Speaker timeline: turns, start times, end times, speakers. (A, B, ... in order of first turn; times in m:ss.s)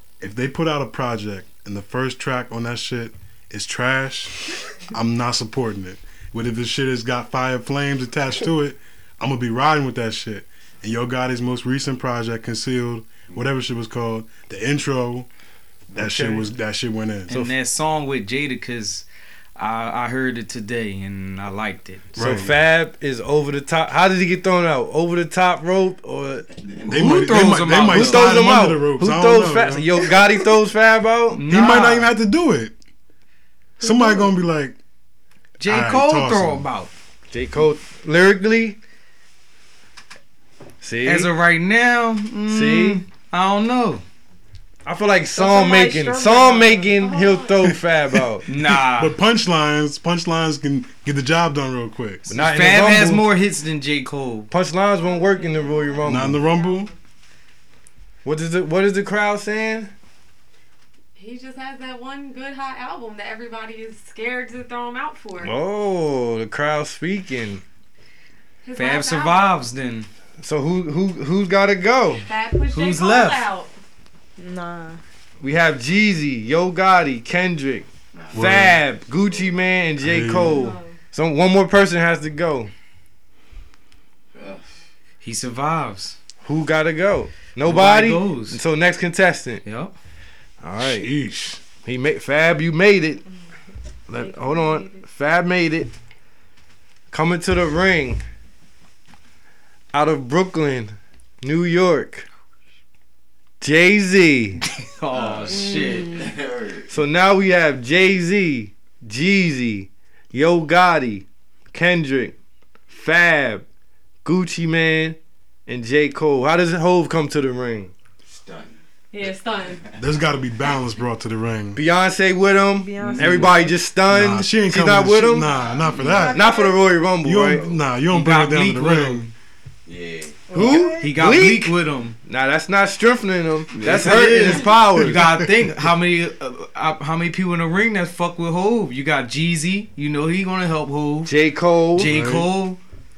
0:00.2-0:15.3 A
0:15.9-0:16.5 B
0:15.9-0:17.4 A
0:17.3-0:19.0 C
0:19.6-0:22.1 C
0:22.1-0:22.6 A
0:22.2-0:26.4 B
0:26.8-0:28.4 C
0:26.9-0:29.9 A
0:27.9-0:31.4 B
0:31.4-0:32.1 C
0:31.4-0:32.7 A
0:33.8-0:34.8 A
0:33.8-0:34.3 D
0:35.6-0:36.9 C
0:35.6-0:36.7 A
0:37.3-0:38.8 B
0:40.8-0:41.3 B
0:41.0-0:44.0 C
0:42.5-0:43.0 B
0:44.8-0:48.4 B
0:45.3-0:47.1 D
0:46.9-0:47.7 E
0:47.6-0:52.3 A
0:48.5-0:49.2 C
0:52.3-0:53.2 B
0:52.3-0:54.5 C
0:54.5-0:56.4 B
0:55.0-0:56.9 E
0:56.0-0:56.9 A
0:58.2-0:59.9 B
1:01.2-1:05.5 E
1:05.4-1:07.6 B
1:08.6-1:09.6 E
1:08.7-1:10.1 C
1:10.4-1:12.2 B
1:12.3-1:13.7 E
1:12.7-1:13.4 C
1:14.4-1:15.0 D
1:15.4-1:22.7 B
1:18.1-1:19.6 F
1:18.3-1:18.8 A
1:20.0-1:20.7 A
1:20.4-1:21.0 E
1:24.3-1:24.8 F
1:25.2-1:26.2 C
1:26.4-1:29.6 B
1:27.6-1:28.6 C
1:29.6-1:29.9 C
1:30.6-1:31.1 B
1:30.8-1:31.6 A
1:31.8-1:33.2 B
1:34.1-1:35.9 B
1:34.1-1:35.0 E
1:37.1-1:38.2 B
1:39.9-1:42.3 B
1:43.6-1:44.6 B
1:44.7-1:46.3 C
1:45.1-1:46.9 F
1:45.5-1:46.3 D
1:46.9-1:52.3 B
1:52.9-1:53.6 B
1:54.2-1:57.9 B
1:58.2-1:58.8 F
1:59.1-1:59.8 E
2:00.0-2:01.8 A
2:01.7-2:05.5 B
2:02.7-2:03.8 D
2:03.0-2:03.5 C
2:04.1-2:06.4 A
2:05.4-2:06.4 F
2:06.0-2:06.7 E
2:06.3-2:07.8 B
2:07.2-2:09.3 A
2:08.1-2:09.3 C
2:09.8-2:10.7 F
2:10.5-2:11.0 D
2:10.5-2:15.2 B
2:11.0-2:12.2 C
2:13.7-2:21.3 C
2:15.0-2:15.9 A
2:21.2-2:22.1 B
2:22.0-2:22.8 C
2:22.0-2:22.5 A